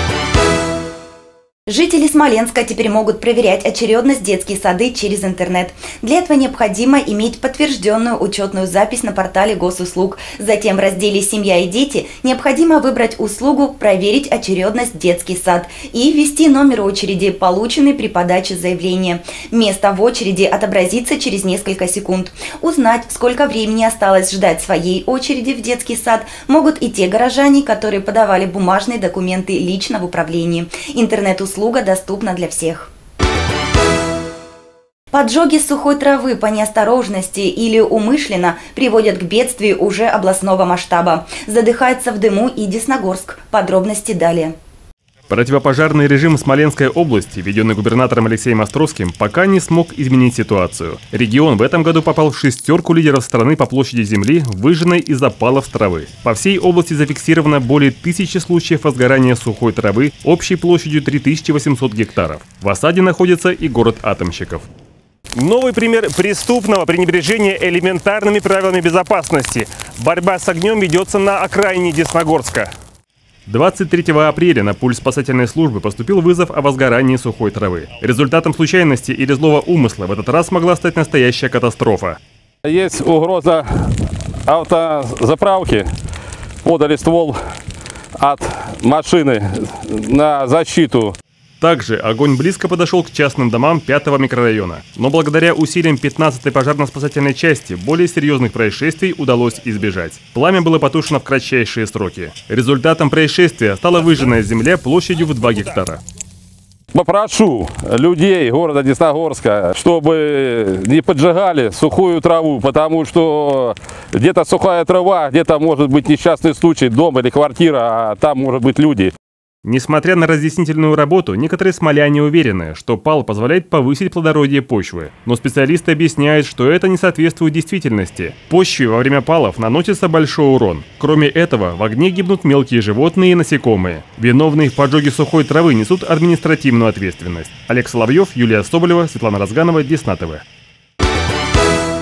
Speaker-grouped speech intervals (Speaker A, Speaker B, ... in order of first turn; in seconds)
Speaker A: 1.7-32.9, 35.1-44.5
Speaker B: 45.3-64.7, 65.4-72.7, 73.5-82.2, 91.6-106.0, 119.6-140.4
Speaker C: 82.6-85.9, 86.6-87.4, 88.2-91.2, 106.9-119.1